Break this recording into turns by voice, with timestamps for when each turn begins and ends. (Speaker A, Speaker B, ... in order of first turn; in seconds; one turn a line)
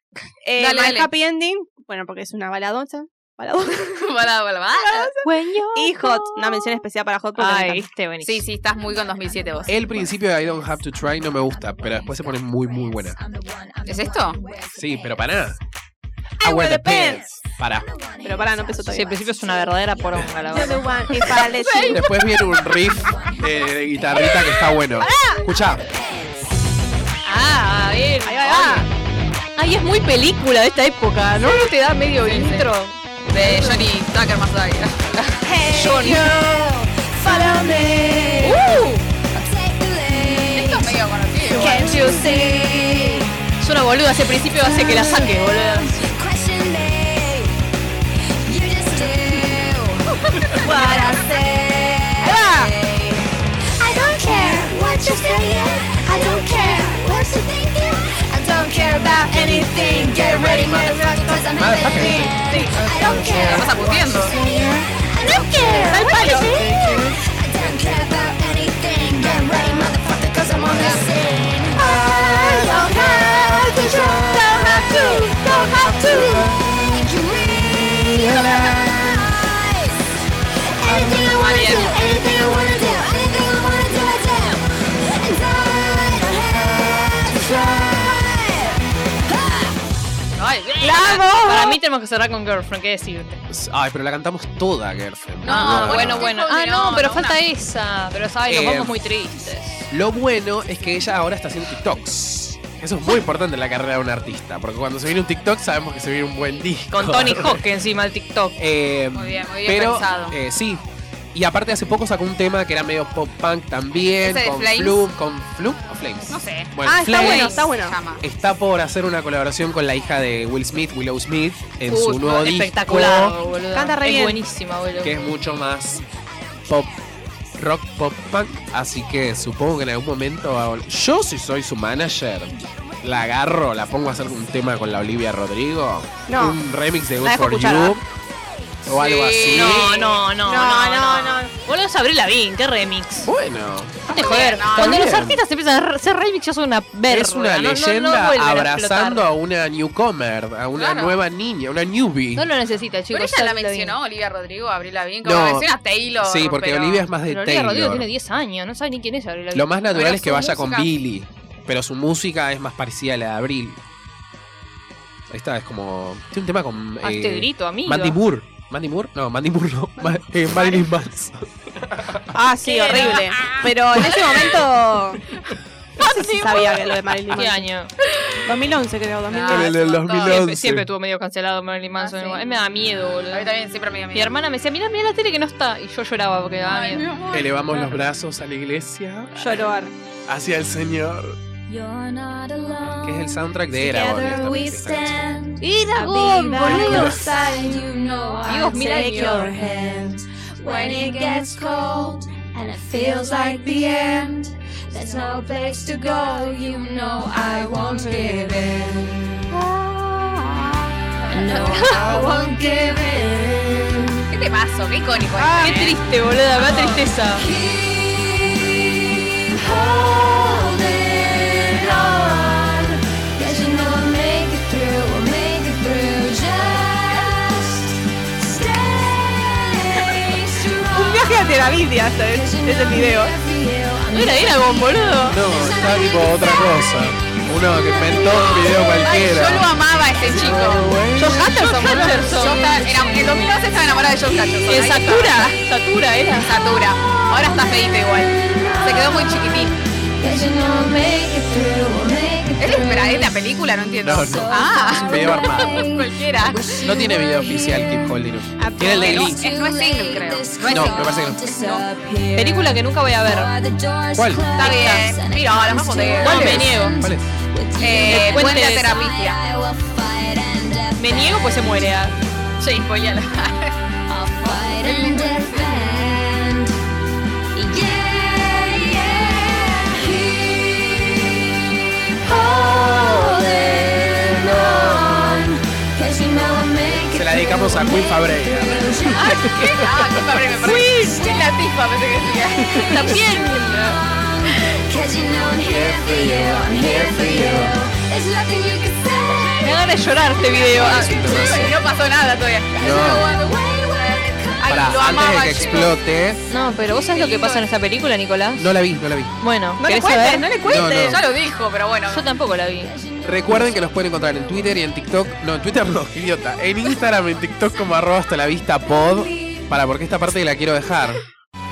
Speaker A: 0.4-4.1
Speaker B: 0.6-1.1
Speaker B: 3.7-5.2
Speaker A: 4.8-5.2
Speaker C: 5.2-6.8
Speaker A: 5.7-7.9
Speaker C: 7.3-8.4
Speaker B: 8.2-9.7
Speaker D: 8.9-15.3
Speaker E: 9.7-13.2
Speaker B: 13.8-14.4
Speaker E: 14.7-15.6
Speaker E: 16.4-17.9
Speaker A: 16.4-17.2
Speaker D: 17.6-24.9
Speaker A: 18.2-19.1
Speaker C: 18.9-22.0
Speaker A: 20.5-22.0
Speaker E: 21.9-25.8
Speaker A: 25.0-25.4
Speaker D: 25.8-26.5
Speaker C: 27.2-28.9
Speaker A: 28.2-28.9
Speaker C: 29.6-33.9
Speaker B: 31.4-32.7
Speaker B: 33.3-35.4
Speaker A: 35.4-38.9
Speaker C: 35.7-36.2
Speaker D: 35.9-38.6
Speaker C: 38.4-39.0
Speaker D: 39.2-41.0
Speaker B: 40.5-41.9
Speaker A: 41.5-43.3
Speaker C: 41.5-42.3
Speaker D: 41.6-43.3
Speaker C: 43.6-46.0
Speaker D: 44.6-47.5
Speaker D: 48.4-80.0
Speaker B: 50.3-50.7
Speaker A: 50.6-51.4
Speaker A: 52.2-52.7
Speaker A: 53.8-57.2
Speaker A: 58.3-63.6
Speaker E: 61.5-64.9
Speaker B: 63.3-64.3
Speaker A: 65.3-67.0
Speaker E: 65.5-70.9
Speaker B: 70.7-71.1
Speaker A: 71.7-76.5
Speaker E: 71.8-74.4
Speaker E: 75.9-77.0
Speaker E: 77.8-79.3
Speaker D: 80.7-89.8
Speaker A: 80.8-83.0
Speaker E: 80.9-81.1
Speaker C: 81.4-82.0
Speaker E: 82.1-83.4
Speaker E: 86.4-88.1
Speaker B: 90.3-91.2
Speaker A: 90.8-91.8
Speaker C: 91.1-93.4
Speaker E: 93.5-96.3
Speaker B: 95.4-97.4
Speaker C: 95.5-99.9
Speaker E: 98.5-98.9
Speaker E: 99.9-107.6
Speaker C: 106.9-108.6
Speaker E: 108.6-110.8
Speaker B: 109.1-110.4
Speaker E: 111.3-117.7
Speaker B: 114.2-115.0
Speaker B: 116.3-118.2
Speaker A: 116.8-118.0
Speaker E: 118.2-123.3
Speaker B: 121.9-122.3
Speaker C: 122.2-125.2
Speaker A: 123.7-124.4
Speaker E: 125.0-126.0
Speaker D: 126.4-126.7
Speaker E: 126.7-127.0
Speaker E: 127.6-138.0
Speaker D: 132.6-133.0
Speaker A: 136.3-136.6
Speaker A: 137.2-138.0
Speaker E: 138.8-139.9
Speaker B: 138.9-140.2
Speaker C: 139.4-143.3
Speaker A: 140.4-141.5
Speaker E: 143.2-144.1
Speaker B: 144.1-145.2
Speaker C: 144.1-149.3
Speaker E: 144.7-145.4
Speaker E: 147.1-152.5
Speaker B: 150.8-151.2
Speaker C: 152.3-154.0
Speaker B: 153.1-157.1
Speaker E: 155.2-158.1
Speaker C: 157.2-159.8
Speaker E: 159.5-163.8
Speaker B: 159.9-160.9
Speaker E: 165.3-172.3
Speaker C: 167.0-168.2
Speaker B: 170.6-170.8
Speaker A: 172.3-175.2
Speaker B: 172.6-174.6
Speaker C: 172.9-173.2
Speaker A: 176.0-177.7
Speaker C: 176.1-177.9
Speaker A: 178.4-179.8
Speaker B: 179.3-180.4
Speaker E: 179.4-180.9
Speaker C: 180.1-183.5
Speaker B: 182.0-182.5
Speaker B: 183.3-184.4
Speaker C: 184.1-187.1
Speaker B: 186.7-188.0
Speaker E: 187.3-189.6
Speaker A: 189.3-189.9
Speaker E: 190.3-191.4
Speaker D: 191.7-209.7
Speaker E: 192.9-195.4
Speaker C: 195.6-197.0
Speaker A: 195.9-197.8
Speaker E: 196.7-197.3
Speaker A: 198.4-201.5
Speaker C: 198.4-199.5
Speaker A: 203.5-204.3
Speaker D: 211.2-214.2
Speaker A: 211.3-212.5
Speaker B: 211.3-211.9
Speaker C: 211.6-212.0
Speaker B: 214.3-216.0
Speaker A: 215.4-215.8
Speaker C: 215.5-217.5
Speaker D: 217.3-239.5
Speaker A: 230.9-233.3
Speaker C: 234.1-235.4
Speaker E: 235.2-239.7
Speaker B: 238.7-245.6
Speaker E: 240.2-241.5
Speaker D: 241.1-244.6
Speaker C: 241.2-243.2
Speaker C: 244.7-246.5
Speaker B: 246.3-249.8
Speaker D: 246.8-253.4
Speaker B: 252.6-256.7
Speaker E: 254.0-255.8
Speaker D: 254.3-258.2
Speaker E: 256.8-259.4
Speaker A: 258.6-259.3
Speaker B: 258.9-261.8
Speaker D: 259.0-271.6
Speaker E: 260.7-261.4
Speaker C: 262.3-263.5
Speaker E: 264.1-264.5
Speaker B: 264.5-266.8
Speaker C: 266.2-267.0
Speaker E: 267.0-267.3
Speaker B: 267.8-269.4
Speaker C: 268.0-268.9
Speaker C: 271.0-272.1
Speaker B: 272.6-273.8
Speaker D: 274.1-276.8
Speaker B: 274.4-275.8
Speaker D: 277.5-289.5
Speaker E: 284.6-285.0
Speaker E: 286.8-290.2
Speaker B: 289.1-293.9
Speaker C: 290.6-291.2
Speaker D: 290.6-291.6
Speaker E: 292.6-293.0
Speaker D: 292.6-301.8
Speaker C: 292.8-294.0
Speaker E: 295.3-297.8
Speaker C: 299.6-301.4
Speaker B: 300.5-306.0
Speaker E: 300.7-301.8
Speaker E: 302.8-303.3
Speaker D: 302.9-305.8
Speaker E: 304.6-306.4
Speaker C: 306.5-308.7
Speaker B: 306.9-307.6
Speaker E: 308.6-309.3
Speaker C: 309.4-310.5
Speaker A: 309.8-311.2
Speaker E: 310.6-311.2
Speaker B: 310.9-312.2
Speaker C: 312.0-312.9
Speaker D: 312.8-314.9
Speaker E: 313.2-321.2
Speaker D: 318.9-319.8